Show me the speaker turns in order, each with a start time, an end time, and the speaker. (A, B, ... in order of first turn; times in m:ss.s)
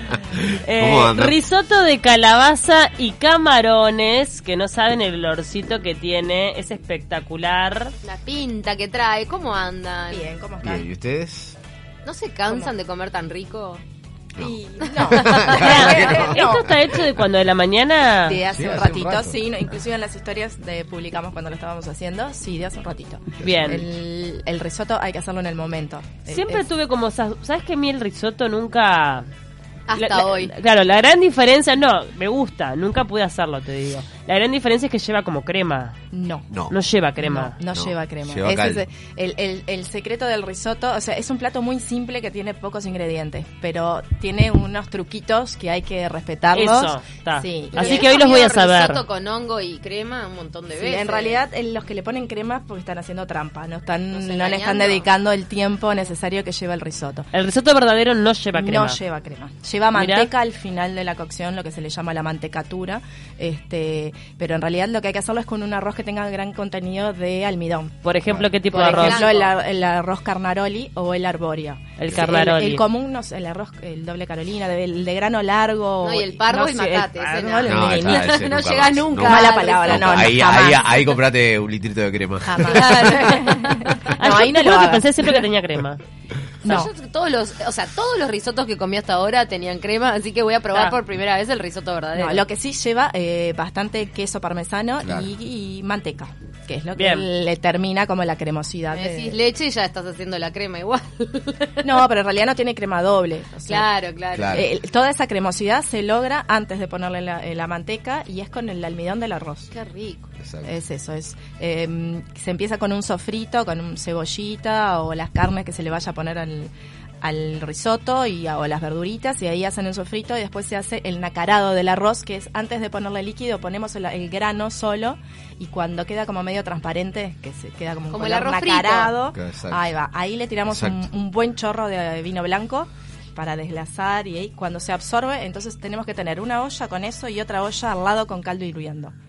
0:00.2-0:01.4 A
0:00.6-0:07.9 B
0:08.0-0:10.3 C
0:10.1-0:10.9 D
0:10.6-0:11.6 A
0:12.0-0:13.8 C
0:12.5-0:12.7 D
0:14.4-0:16.5 A
0:14.4-0:16.9 D
0:14.8-0:15.9 C
0:15.5-0:18.4 B
0:18.2-0:26.6 D
0:18.5-0:19.4 A
0:23.4-0:23.9 B
0:23.4-0:23.8 A
0:26.3-0:29.3 B
0:29.9-0:30.5 C
0:30.0-0:36.0 B
0:36.1-0:36.5 D
0:36.5-0:36.8 A
0:36.7-0:37.6 B
0:37.2-0:48.1 D
0:37.7-0:38.8 A
0:46.5-0:49.0 B
0:47.7-0:51.4 C
0:50.7-0:57.3 D
0:54.1-0:55.1 C
0:57.3-0:59.0 B
0:58.6-1:08.0 D
0:59.9-1:00.3 B
1:08.0-1:09.2 B
1:08.7-1:18.3 D
1:08.8-1:09.5 C
1:12.0-1:12.8 B
1:12.1-1:12.4 A
1:16.0-1:20.4 C
1:17.6-1:22.9 A
1:19.2-1:21.1 D
1:22.5-1:25.4 D
1:22.6-1:24.1 C
1:24.1-1:26.0 B
1:26.6-1:26.9 D
1:26.6-1:32.4 C
1:32.2-1:39.4 D
1:35.0-1:35.3 A
1:37.0-1:37.3 B
1:38.9-1:41.9 C
1:41.8-1:43.9 D
1:43.7-1:44.7 C
1:44.3-1:44.7 A
1:44.5-1:49.7 D
1:49.7-1:50.3 C
1:50.4-1:50.7 A
1:50.6-2:19.1 D
2:08.1-2:09.2 C
2:09.3-2:09.8 A
2:10.6-2:11.1 A